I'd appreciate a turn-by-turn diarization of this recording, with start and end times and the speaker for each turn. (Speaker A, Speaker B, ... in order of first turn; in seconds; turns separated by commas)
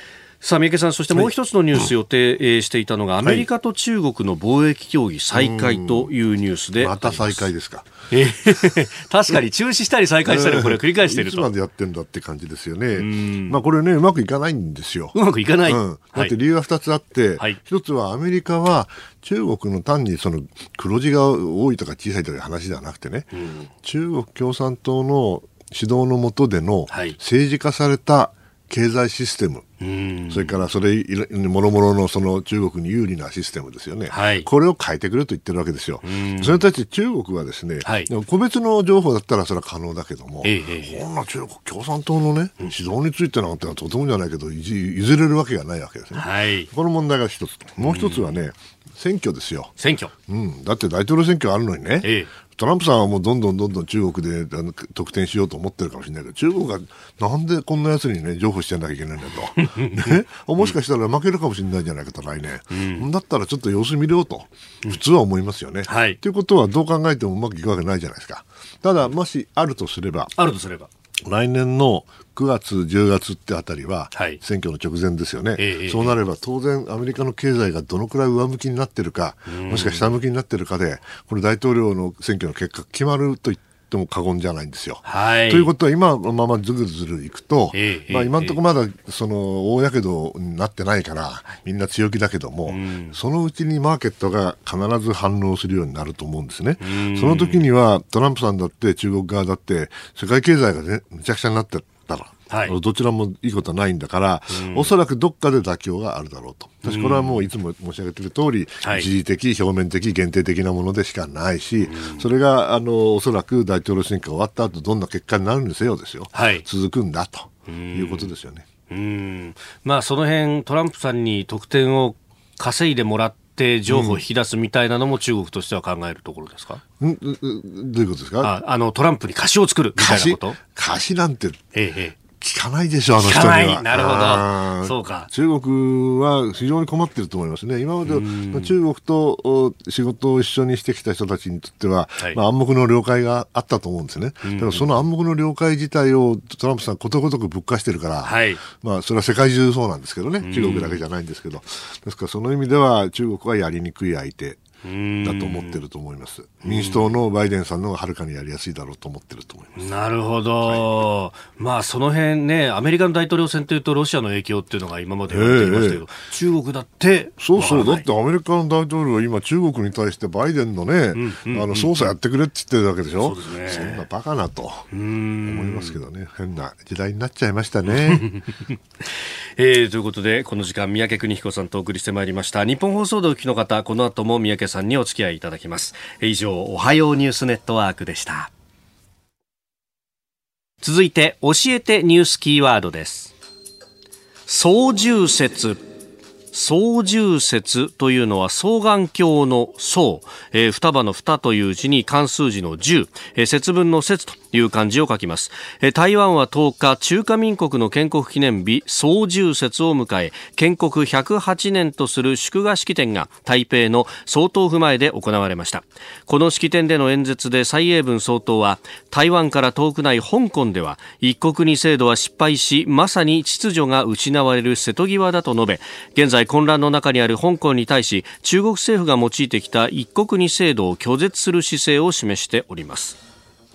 Speaker A: 0.4-7.5, Speaker B: 5.3-6.1, Speaker B: 6.8-7.9, Speaker A: 8.1-11.5, Speaker B: 10.2-15.2, Speaker A: 12.9-13.6, Speaker A: 15.1-16.4, Speaker B: 15.7-29.7, Speaker A: 23.3-23.7, Speaker A: 26.9-27.2, Speaker A: 29.8-30.6, Speaker B: 30.3-49.7, Speaker A: 34.1-34.5, Speaker A: 36.0-36.6, Speaker A: 37.8-38.1, Speaker A: 40.4-41.0, Speaker A: 46.1-46.7, Speaker A: 47.8-48.4, Speaker A: 49.8-50.1, Speaker B: 50.3-70.3, Speaker A: 52.0-52.3, Speaker A: 59.6-60.8, Speaker A: 62.7-63.1, Speaker A: 65.9-66.2, Speaker A: 70.4-70.9, Speaker B: 71.2-118.7, Speaker A: 74.2-74.4, Speaker A: 75.6-76.2, Speaker A: 79.5-80.2, Speaker A: 85.0-85.7, Speaker A: 87.7-88.6, Speaker A: 92.7-93.2, Speaker A: 96.8-97.7, Speaker A: 102.5-102.8, Speaker A: 104.5-104.9, Speaker A: 106.8-107.5, Speaker A: 108.8-109.1, Speaker A: 111.8-112.3, Speaker A: 116.3-116.7, Speaker A: 117.7-118.3, Speaker A: 118.9-126.8, Speaker B: 123.9-124.2, Speaker B: 127.0-128.5, Speaker A: 128.4-130.6, Speaker B: 130.0-131.6, Speaker A: 131.7-132.2, Speaker B: 132.4-154.6, Speaker A: 133.2-135.3, Speaker A: 138.1-138.7, Speaker A: 144.4-145.0, Speaker A: 148.2-148.6, Speaker A: 150.4-151.0, Speaker A: 154.8-155.8, Speaker B: 155.2-159.9, Speaker A: 156.6-157.2, Speaker A: 159.8-168.1, Speaker B: 160.7-160.9, Speaker B: 165.3-166.0, Speaker B: 167.4-174.9, Speaker A: 171.1-172.1, Speaker A: 173.2-174.0, Speaker A: 174.9-176.0, Speaker B: 175.4-178.3, Speaker A: 177.9-188.5, Speaker A: 190.8-193.3, Speaker A: 194.5-195.8, Speaker A: 196.5-233.2